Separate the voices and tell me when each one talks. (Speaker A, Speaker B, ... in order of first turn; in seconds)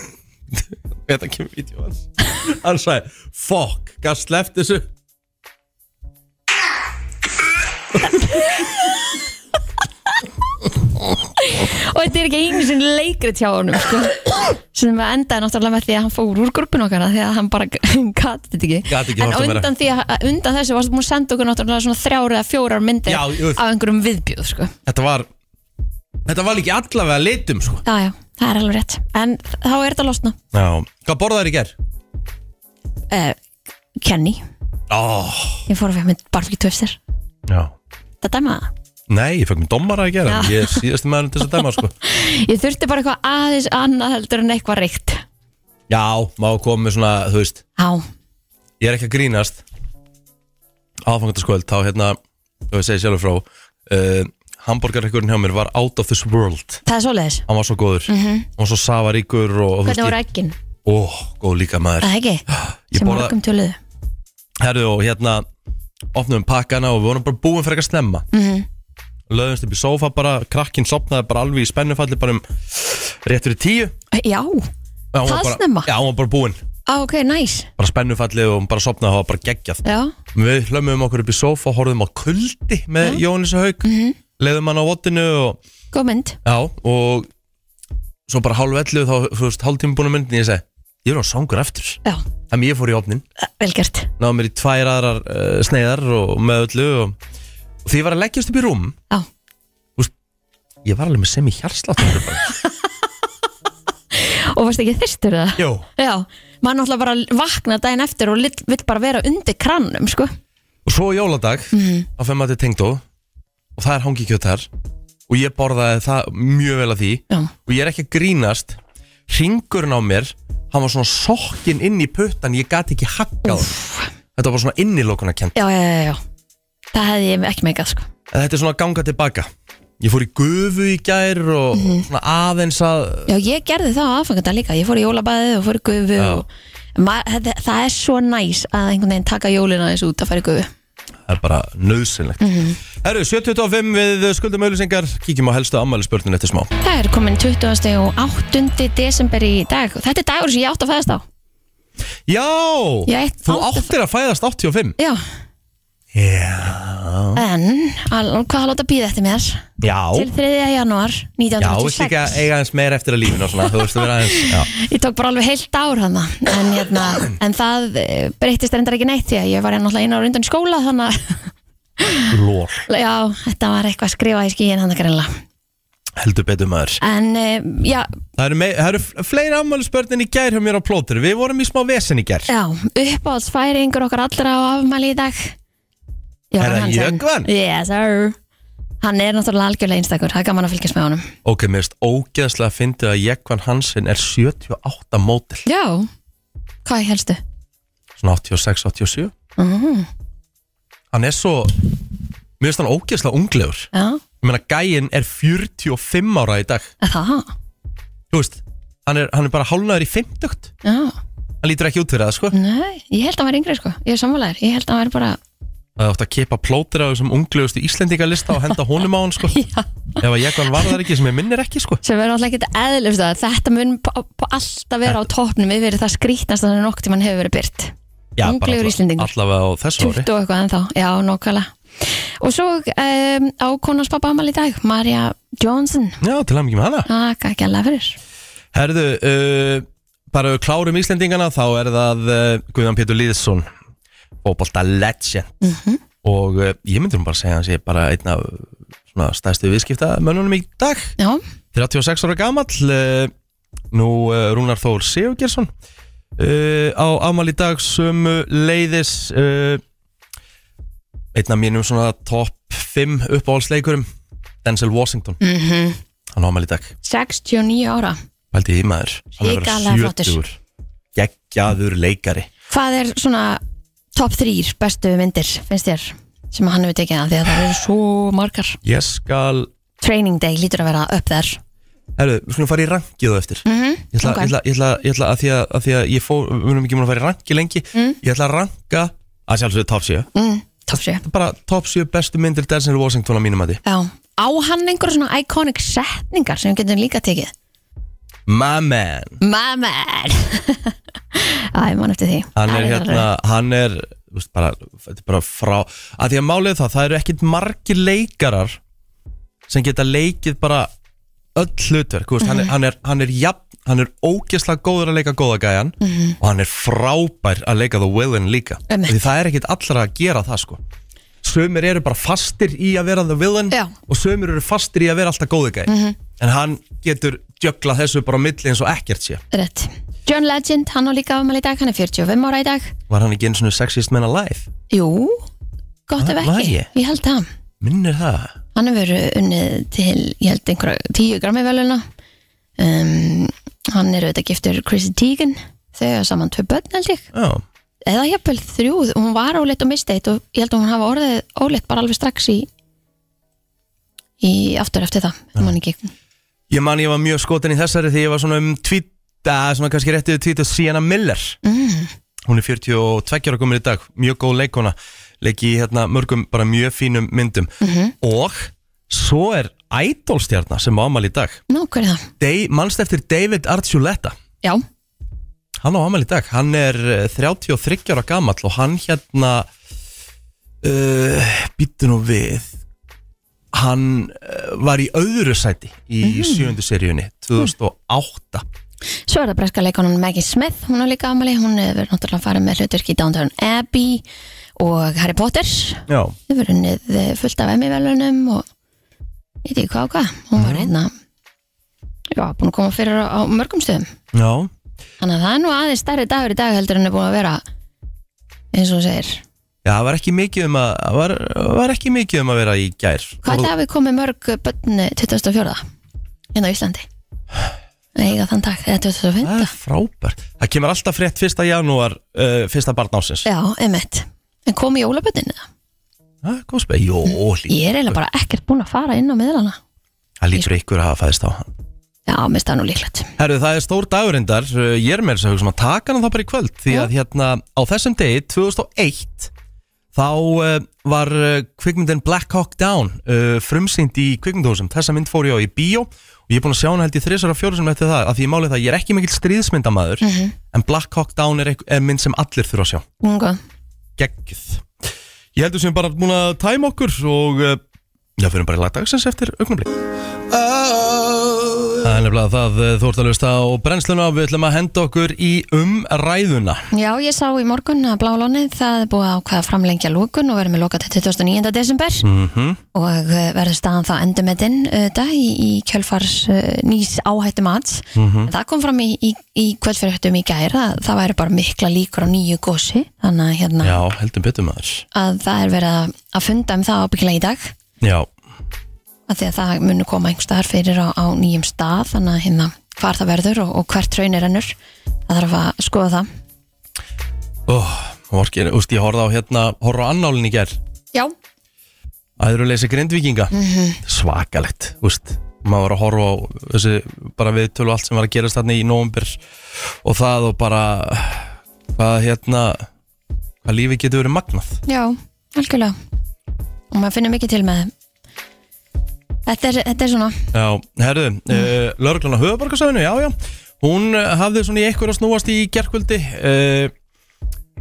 Speaker A: 0.5-4.9, 18.9-19.7, 23.1-23.6, 24.9-25.3, 26.2-27.8, 30.5-31.8, 34.9-35.6, 37.5-37.7, 39.1-41.9, 45.9-47.6, 48.8-49.6, 51.0-52.2, 52.7-56.8, 57.5-60.2, 60.9-63.4, 64.6-65.5, 66.1-68.2, 69.3-74.0, 75.1-76.6, 77.8-79.8, 80.3-83.8, 84.4-85.6, 86.4-87.3, 88.3-93.2, 94.2-97.2, 97.8-99.0, 100.8-102.5, 105.6-105.9, 110.8-113.0, 113.8-114.7, 115.3-123.8, 124.3-125.5, 128.3-133.3, 136.2-136.4, 141.3-146.7, 152.3-155.0, 156.1-157.4, 159.8-160.3, 161.6-164.7, 172.3-172.9, 176.2-177.0, 178.4-182.5, 186.6-187.5, 191.4-195.6, 198.2-199.3, 201.1-201.9, 202.6-203.9, 204.4-206.9, 208.3-210.7, 211.6-212.5, 216.0-219.6, 220.2-222.0, 228.4-230.3, 236.2-237.1, 238.7-243.7, 244.4-245.6, 246.2-251.2, 251.7-253.3, 253.9-255.7, 256.4-259.8, 261.3-264.1, 264.6-265.4, 266.3-266.9, 268.5-270.6, 271.1-272.5, 278.8-279.7, 282.2-290.3, 291.1-293.8, 298.5-299.4, 302.6-308.8, 309.7-310.9, 311.6-320.8, 321.4-329.4, 333.1-334.7, 336.2-336.9, 337.8-338.6, 347.3-347.6, 356.7-361.6, 362.5-371.6, 372.4-374.4, 375.8-379.7, 380.8-382.7, 383.7-388.6, 396.1-396.4, 400.6-400.9, 404.3-404.7, 409.8-413.7, 419.4-423.5, 426.4-428.2, 430.4-431.7, 433.4-439.5, 440.1-453.1, 454.2-454.9, 455.6-457.8, 458.4-459.9, 460.5-466.8, 472.2-472.8, 478.1-478.5, 483.8-485.1, 488.0-488.3, 497.7-500.8, 502.4-503.5, 504.0-512.9, 513.6-514.8, 520.5-526.9
Speaker B: 11.4-24.7, 27.9-30.4, 33.1-33.4, 34.0-34.4, 35.7-37.0, 38.2-38.7, 40.3-40.8, 41.5-45.2, 47.8-48.0, 56.9-57.5, 58.1-58.5, 59.8-60.6, 62.0-63.8, 68.3-68.7, 74.1-74.7, 75.2-75.9, 76.9-77.7, 79.8-80.1, 83.8-84.2, 85.9-86.4, 93.4-94.1, 104.1-110.3, 111.7-112.1, 123.5-124.1, 125.5-126.2, 126.9-128.1, 131.7-132.1, 133.3-140.7, 142.4-142.8, 146.8-151.2, 153.1-153.9, 157.3-162.4, 163.9-172.3, 172.9-175.3, 177.0-178.1, 182.5-185.6, 186.5-188.4, 189.0-191.3, 195.7-196.1, 196.8-197.4, 199.6-200.1, 203.9-204.2, 207.0-207.5, 210.8-211.2, 212.5-215.4, 219.5-220.9, 222.0-229.3, 230.0-236.2, 237.1-238.2, 245.6-246.0, 265.4-266.0, 267.0-268.2, 269.4-270.4, 272.7-273.6, 274.1-278.8, 280.0-281.6, 283.6-284.6, 290.4-291.2, 293.9-297.5, 299.4-303.3, 312.4-312.7, 316.0-316.4, 318.9-319.2, 325.9-326.2, 329.5-332.9, 334.9-335.5, 336.1-337.5, 338.8-342.0, 342.8-347.3, 348.1-352.7, 354.4-356.1, 361.6-362.1, 367.8-368.1, 371.7-372.3, 386.2-386.7, 389.3-394.2, 394.8-398.6, 399.6-401.1, 402.3-404.1, 405.2-407.6, 408.7-409.4, 413.4-415.8, 416.5-417.1, 418.1-419.7, 423.4-425.6, 427.7-429.8, 432.3-433.3, 450.2-450.6, 453.2-453.6, 466.9-472.3, 472.9-484.0, 485.1-487.7, 489.3-494.7, 495.3-496.3, 503.5-504.0, 514.9-515.9, 516.9-517.9, 519.5-520.4